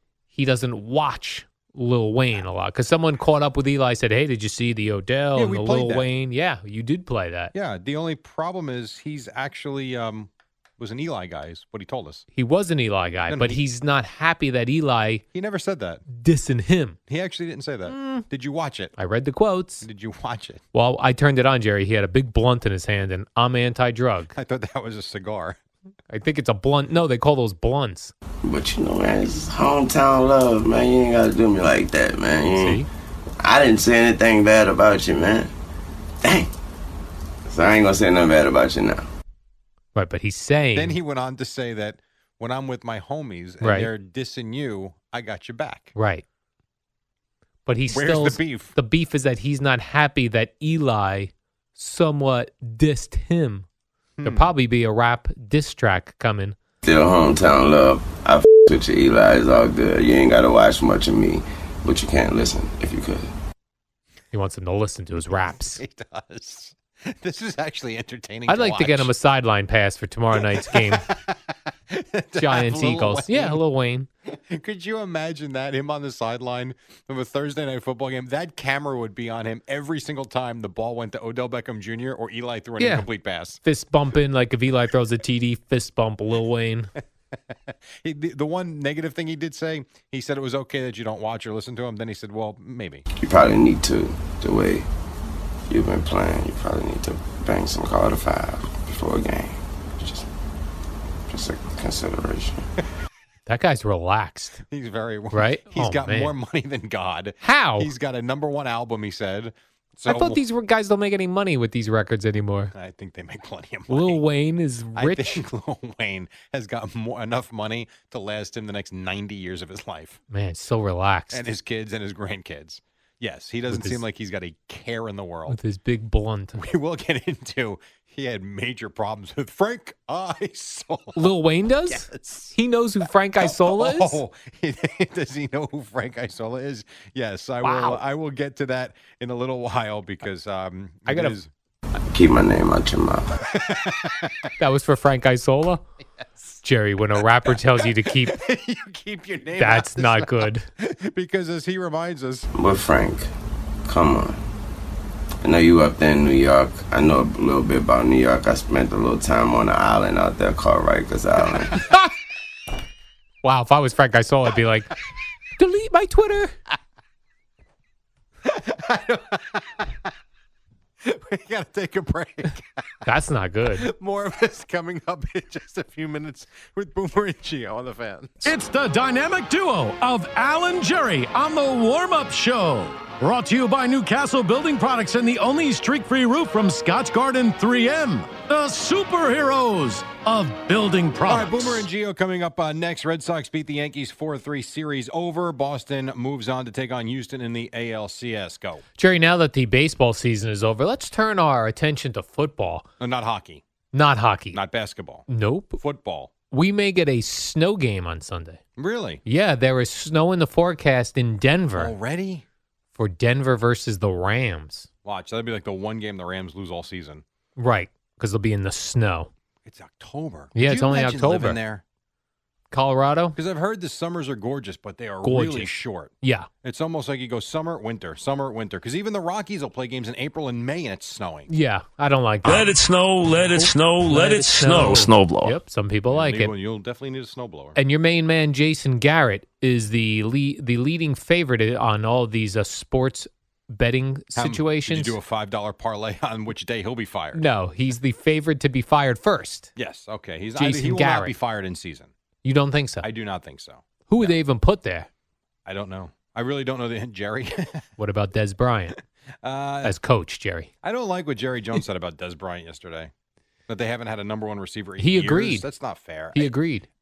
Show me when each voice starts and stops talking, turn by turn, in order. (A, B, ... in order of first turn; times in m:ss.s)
0:00.3-0:07.5 A
0:05.4-0:06.1 B
0:07.5-0:12.2 B
0:12.3-0:15.2 A
0:13.3-0:13.6 B
0:15.3-0:16.0 B
0:16.1-0:17.0 A
0:17.1-0:18.9 B
0:17.9-0:18.2 A
0:19.0-0:19.9 A
0:19.8-0:20.6 B
0:20.7-0:24.3 A
0:24.3-0:25.6 B
0:26.1-0:28.1 A
0:28.4-0:32.8 C
0:32.5-0:32.9 A
0:33.4-0:35.5 C
0:36.2-0:36.5 C
0:37.5-0:39.1 C
0:40.0-0:41.0 A
0:40.8-0:45.9 B
0:43.6-0:43.9 A
0:46.0-0:46.2 A
0:47.7-0:53.7 A
0:47.9-0:48.7 B
0:54.2-0:54.5 B
0:54.2-0:56.6 A
0:56.8-1:03.3 C
1:04.3-1:05.8 A
1:05.3-1:09.1 B
1:08.5-1:11.0 A
1:10.3-1:13.6 B
1:12.4-1:14.1 A
1:14.3-1:23.6 B
1:22.8-1:23.1 A
1:23.6-1:26.9 A
1:27.5-1:33.0 B
1:33.2-1:34.9 C
1:35.7-1:40.3 C
1:41.3-1:42.7 C
1:43.5-1:44.6 A
1:44.6-1:50.4 B
1:45.3-1:46.3 A
1:47.4-1:47.9 A
1:50.1-1:52.7 A
1:52.7-1:54.2 B
1:53.9-1:55.4 A
1:55.0-2:00.2 B
2:00.3-2:01.4 A
2:01.3-2:05.6 B
2:03.7-2:04.0 A
2:05.5-2:06.6 A
2:06.6-2:11.4 B
2:11.2-2:14.2 A
2:11.9-2:12.6 B
2:13.4-2:21.5 B
2:17.6-2:18.0 A
2:21.1-2:21.4 A
2:22.1-2:23.4 C
2:23.5-2:24.5 B
2:24.6-2:25.8 A
2:26.6-2:28.4 A
2:27.2-2:32.5 B
2:29.6-2:30.7 A
2:32.5-2:33.3 C
2:33.9-2:34.4 C
2:35.4-2:41.9 C
2:43.4-2:44.9 A
2:45.6-2:46.6 A
2:48.4-2:50.0 B
2:51.0-2:52.8 B
2:53.0-2:53.8 A
2:53.7-2:58.5 B
2:58.4-3:11.8 D
3:11.2-3:18.8 B
3:19.0-3:22.9 A
3:23.0-3:23.6 B
3:23.9-3:24.6 A
3:24.5-3:25.3 B
3:25.3-3:25.8 A
3:25.8-3:26.3 B
3:26.5-3:28.6 A
3:28.8-3:29.2 B
3:29.3-3:31.9 A
3:31.8-3:32.4 B
3:33.0-3:34.9 A
3:35.0-3:37.2 B
3:37.6-3:39.3 A
3:39.6-3:41.8 B
3:40.6-3:41.6 A
3:42.7-3:43.4 A
3:43.4-3:51.5 B
3:45.2-3:46.5 A
3:51.5-3:52.7 A
3:52.4-3:55.6 E
3:53.5-3:56.5 A
3:56.1-3:57.8 B
3:57.8-4:05.2 A
4:04.4-4:07.4 B
4:07.3-4:09.7 A
4:09.8-4:12.1 B
4:10.6-4:11.3 A
4:12.4-4:13.1 A
4:13.0-4:14.4 B
4:14.1-4:15.1 A
4:15.7-4:17.9 B
4:18.0-4:19.0 A
4:19.4-4:20.0 B
4:19.8-4:20.7 A
4:20.8-4:23.1 B
4:23.7-4:26.5 B
4:25.0-4:25.6 A
4:26.3-4:26.9 A